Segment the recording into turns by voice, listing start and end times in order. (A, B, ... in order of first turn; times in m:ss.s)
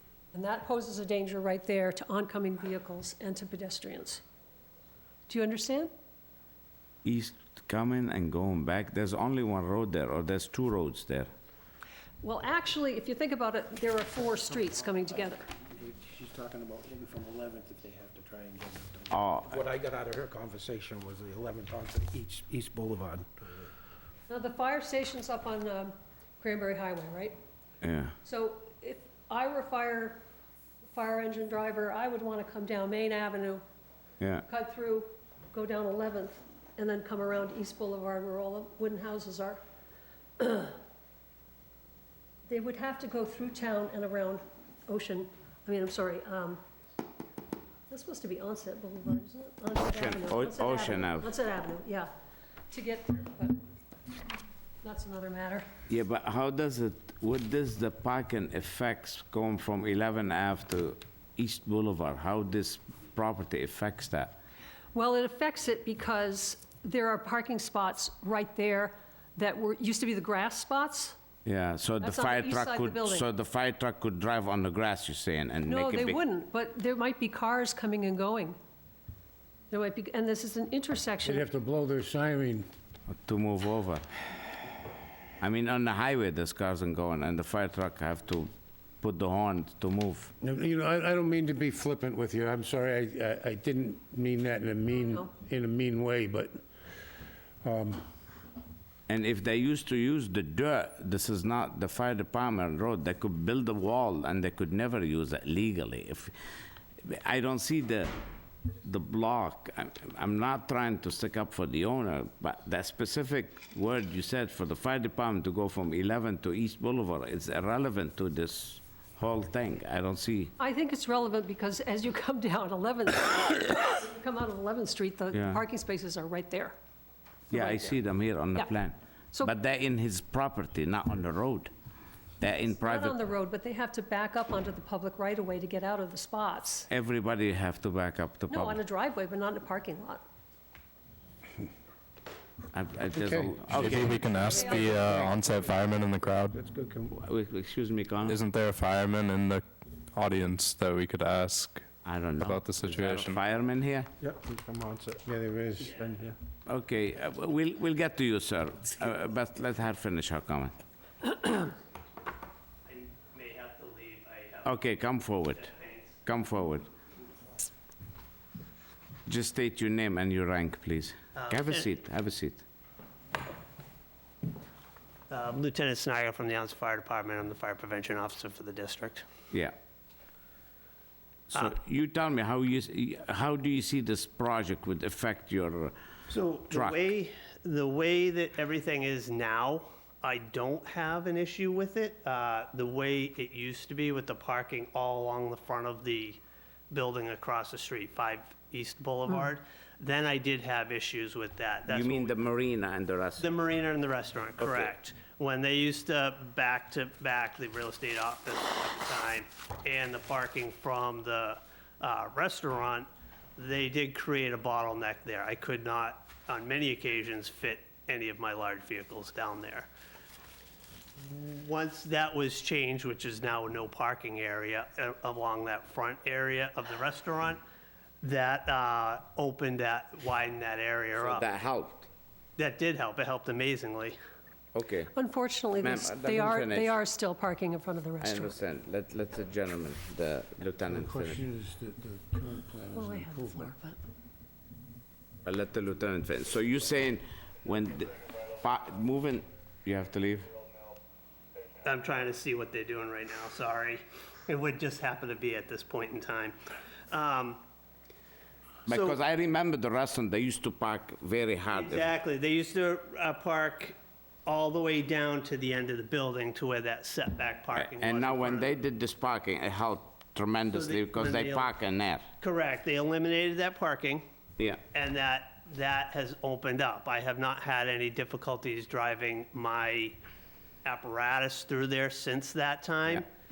0:00.3-0:04.2 A
0:05.3-0:05.9 A
0:07.0-0:11.3 B
0:12.2-0:15.4 A
0:15.9-0:23.2 C
0:19.1-0:19.6 B
0:20.2-0:23.2 D
0:24.3-0:27.3 A
0:27.8-0:28.1 B
0:28.2-0:30.2 A
0:30.9-0:33.6 A
0:34.4-0:39.6 A
0:40.4-0:40.8 A
0:42.4-0:46.6 A
0:47.9-0:52.1 A
0:49.9-0:51.3 B
0:52.7-0:53.6 A
0:54.8-0:55.6 A
0:55.9-1:04.4 B
1:04.9-1:11.2 A
1:11.4-1:16.2 B
1:12.0-1:13.3 A
1:15.6-1:18.6 A
1:19.7-1:21.4 A
1:21.2-1:22.7 D
1:23.1-1:24.0 B
1:25.4-1:30.3 B
1:30.4-1:36.6 D
1:37.6-1:38.0 D
1:39.1-1:46.3 B
1:47.0-1:48.1 B
1:48.8-2:00.5 B
2:00.6-2:06.7 A
2:05.3-2:05.6 B
2:07.5-2:08.0 A
2:07.5-2:11.7 B
2:12.4-2:13.2 B
2:12.8-2:16.9 A
2:16.9-2:18.8 B
2:18.5-2:20.2 A
2:22.7-2:24.4 B
2:23.1-2:25.4 D
2:23.7-2:26.6 E
2:24.4-2:25.2 A
2:26.6-2:27.0 C
2:27.1-2:28.4 B
2:28.2-2:33.4 E
2:32.0-2:34.1 B
2:34.2-2:36.4 D
2:34.6-2:35.2 C
2:36.6-2:40.7 B
2:42.8-2:46.2 F
2:44.6-2:45.7 B
2:46.2-2:46.9 B
2:49.3-2:52.6 B
2:51.4-2:52.0 F
2:55.3-2:59.2 F
3:01.5-3:05.9 B
3:06.3-3:22.4 F
3:06.7-3:07.0 B
3:21.9-3:23.5 B
3:23.4-3:39.9 F
3:24.6-3:24.9 B
3:41.2-3:47.6 F
3:48.2-3:51.4 F
3:51.2-3:52.1 B
3:52.6-3:54.2 F
3:54.7-3:55.1 B
3:55.1-3:58.6 A
3:55.8-3:56.9 B
3:58.2-4:01.4 B
4:00.9-4:03.7 D
4:02.9-4:04.0 A
4:05.4-4:10.5 B
4:11.8-4:16.6 F
4:17.1-4:17.6 F
4:18.9-4:22.1 B
4:18.9-4:19.2 F
4:21.7-4:28.7 F
4:27.7-4:32.3 B
4:30.6-4:31.7 F
4:32.4-4:34.2 F
4:34.9-4:40.2 F
4:40.8-4:43.3 F